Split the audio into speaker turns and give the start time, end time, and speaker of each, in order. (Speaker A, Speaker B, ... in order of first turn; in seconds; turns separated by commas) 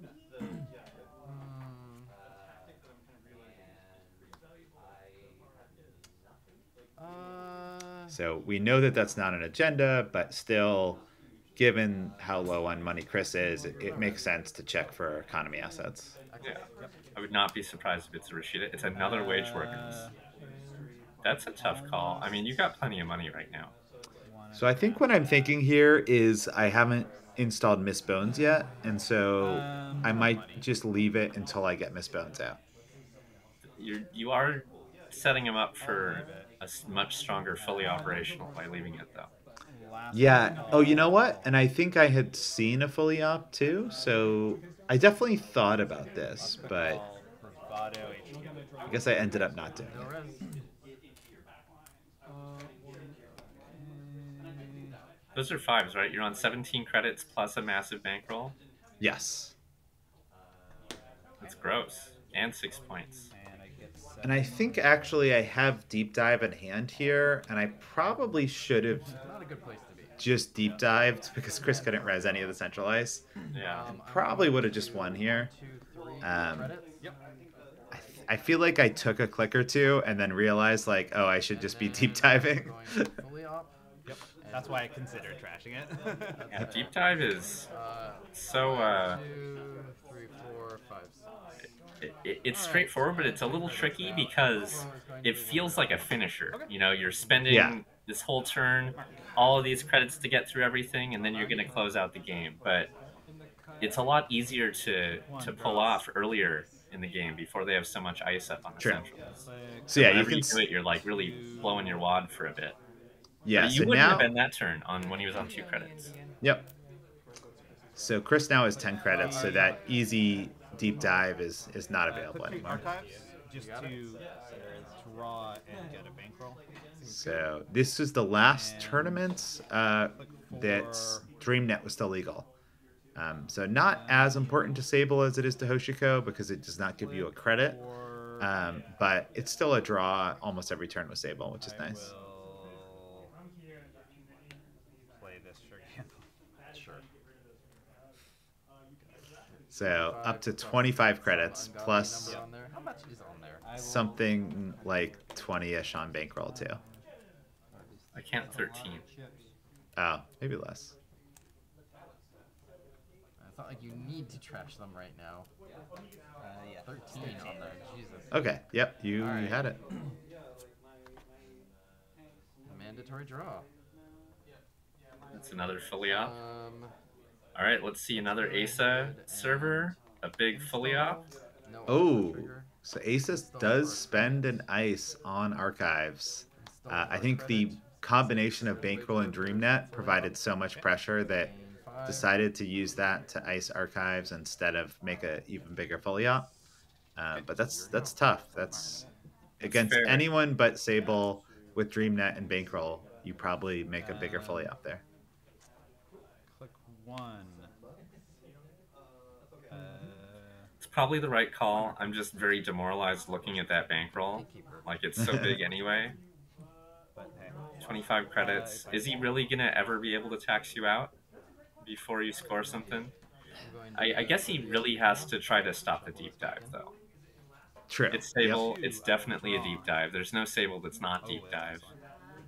Speaker A: 1.2-2.1, Speaker A: 7.0-8.2, Speaker B: 8.1-11.0, Speaker B: 11.6-16.1, Speaker C: 13.9-14.1, Speaker A: 16.3-16.7, Speaker D: 17.1-20.0, Speaker C: 18.9-20.2, Speaker D: 21.2-23.7, Speaker C: 21.6-22.6, Speaker C: 24.2-25.3, Speaker B: 24.5-32.6, Speaker C: 29.4-30.7, Speaker D: 33.8-39.3, Speaker C: 35.8-36.5, Speaker C: 37.5-38.4, Speaker C: 39.7-41.6, Speaker B: 40.1-47.0, Speaker A: 46.4-46.9, Speaker C: 46.4-49.6, Speaker B: 48.9-50.1, Speaker A: 49.8-50.4, Speaker C: 53.7-54.9, Speaker D: 55.4-58.5, Speaker B: 59.0-59.5, Speaker D: 61.4-63.3, Speaker C: 63.3-65.2, Speaker B: 64.2-69.1, Speaker A: 69.2-70.2, Speaker B: 70.2-73.2, Speaker C: 71.4-72.6, Speaker D: 73.5-73.9, Speaker A: 73.5-77.0, Speaker B: 73.9-75.5, Speaker B: 76.2-76.8, Speaker B: 77.9-83.1, Speaker A: 81.5-83.8, Speaker C: 84.0-86.6, Speaker A: 84.4-84.8, Speaker A: 86.3-91.3, Speaker D: 86.5-87.7, Speaker D: 88.3-89.2, Speaker D: 92.0-102.9, Speaker C: 92.5-93.1, Speaker A: 92.8-96.2, Speaker B: 97.5-97.8, Speaker C: 98.9-99.5, Speaker C: 101.3-101.8, Speaker D: 103.8-109.4, Speaker C: 105.1-106.1, Speaker B: 108.8-109.0, Speaker C: 109.1-110.3, Speaker B: 109.9-110.7, Speaker D: 109.9-112.8, Speaker C: 110.9-112.0, Speaker B: 113.4-114.3, Speaker D: 113.5-116.1, Speaker B: 116.4-116.7, Speaker B: 118.0-122.8, Speaker C: 119.1-119.8, Speaker A: 119.1-119.7, Speaker C: 122.1-127.2, Speaker A: 122.1-125.0, Speaker B: 127.0-132.5, Speaker C: 128.5-129.4, Speaker C: 130.2-131.2, Speaker B: 133.2-137.8, Speaker C: 133.8-134.9, Speaker C: 137.0-138.6, Speaker B: 138.4-142.1, Speaker C: 141.6-143.3, Speaker C: 145.2-146.2, Speaker A: 146.7-147.0, Speaker B: 149.7-152.4, Speaker A: 149.8-153.7, Speaker C: 153.6-154.3, Speaker B: 153.8-156.8, Speaker A: 157.7-159.1, Speaker D: 158.1-159.1, Speaker C: 158.3-159.2, Speaker B: 159.9-160.9, Speaker A: 163.4-165.5, Speaker C: 166.4-167.8, Speaker A: 166.8-168.6, Speaker B: 168.3-169.8, Speaker A: 169.1-169.7, Speaker A: 172.7-173.7, Speaker D: 175.3-176.3, Speaker A: 176.1-176.9, Speaker D: 177.6-181.2, Speaker A: 178.3-180.0, Speaker C: 180.5-181.3, Speaker A: 180.7-181.1, Speaker A: 181.6-182.7, Speaker B: 181.9-191.5, Speaker A: 183.3-184.6, Speaker A: 186.6-192.3, Speaker B: 192.1-196.5, Speaker B: 197.2-199.0, Speaker C: 197.3-199.1, Speaker B: 199.6-205.0, Speaker D: 199.6-200.3, Speaker C: 203.9-204.7, Speaker C: 206.5-207.7, Speaker C: 209.7-210.7, Speaker D: 210.8-216.2, Speaker A: 214.1-215.0, Speaker B: 215.2-215.6, Speaker C: 217.1-219.3, Speaker D: 217.8-221.1, Speaker D: 221.8-223.1, Speaker A: 223.6-226.8, Speaker D: 223.9-226.9, Speaker B: 227.9-228.6, Speaker D: 228.1-231.9, Speaker C: 228.4-229.9, Speaker C: 231.2-232.0